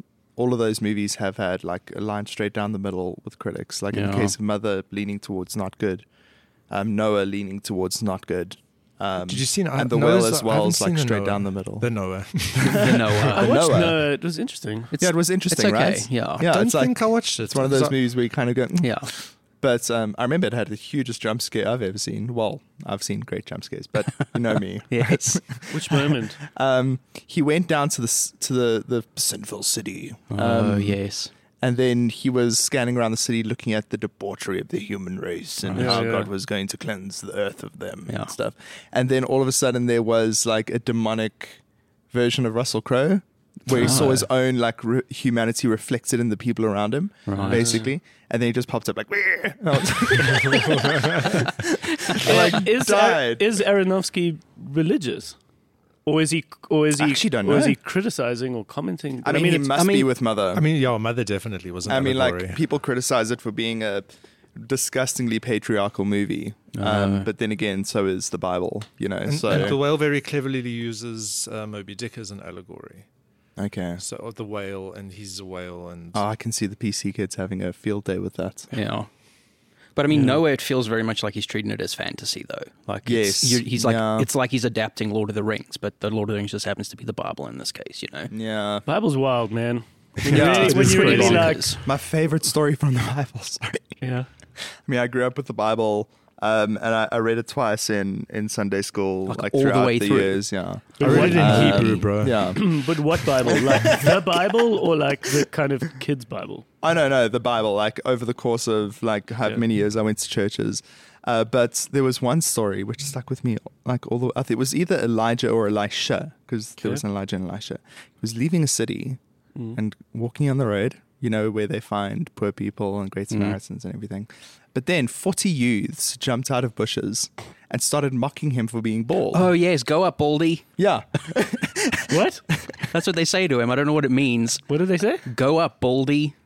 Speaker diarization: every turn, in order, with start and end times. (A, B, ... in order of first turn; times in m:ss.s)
0:00.4-0:06.1 A
0:03.9-0:04.3 B
0:06.7-0:11.9 A
0:09.2-0:13.3 C
0:12.6-0:14.0 A
0:12.7-0:13.8 B
0:13.3-0:14.9 D
0:14.9-0:16.5 B
0:15.0-0:31.0 A
0:16.4-0:17.9 C
0:18.8-0:19.1 B
0:24.9-0:25.4 B
0:25.7-0:26.4 D
0:30.3-0:31.3 B
0:31.6-0:41.6 A
0:35.6-0:36.0 B
0:35.8-0:36.3 D
0:38.1-0:38.3 B
0:42.1-0:53.4 A
0:43.7-0:44.3 B
0:47.3-0:47.8 B
0:47.4-0:47.8 D
0:50.4-0:51.1 C
0:52.2-0:55.4 D
0:56.0-0:59.8 D
0:57.0-0:57.8 A
0:59.2-1:00.6 A
0:59.8-1:00.1 B
1:00.5-1:02.6 C
1:01.9-1:09.8 A
1:06.8-1:07.3 B
1:09.3-1:13.1 C
1:13.6-1:14.0 A
1:14.0-1:16.2 C
1:16.1-1:18.7 A
1:18.7-1:19.1 B
1:20.0-1:28.3 B
1:23.1-1:24.3 A
1:28.3-1:28.8 A
1:28.9-1:31.8 D
1:30.3-1:34.0 A
1:30.3-1:31.8 B
1:30.8-1:31.4 C
1:34.0-1:34.3 D
1:34.6-1:44.6 A
1:39.3-1:42.1 B
1:41.0-1:41.9 D
1:41.0-1:42.6 C
1:42.5-1:46.7 D
1:46.8-1:59.2 A
1:59.8-2:09.5 A
2:03.3-2:03.6 B
2:09.3-2:10.7 B
2:10.8-2:12.7 A
2:12.1-2:12.4 D
2:12.8-2:14.7 B
2:14.7-2:15.2 D
2:15.2-2:16.3 B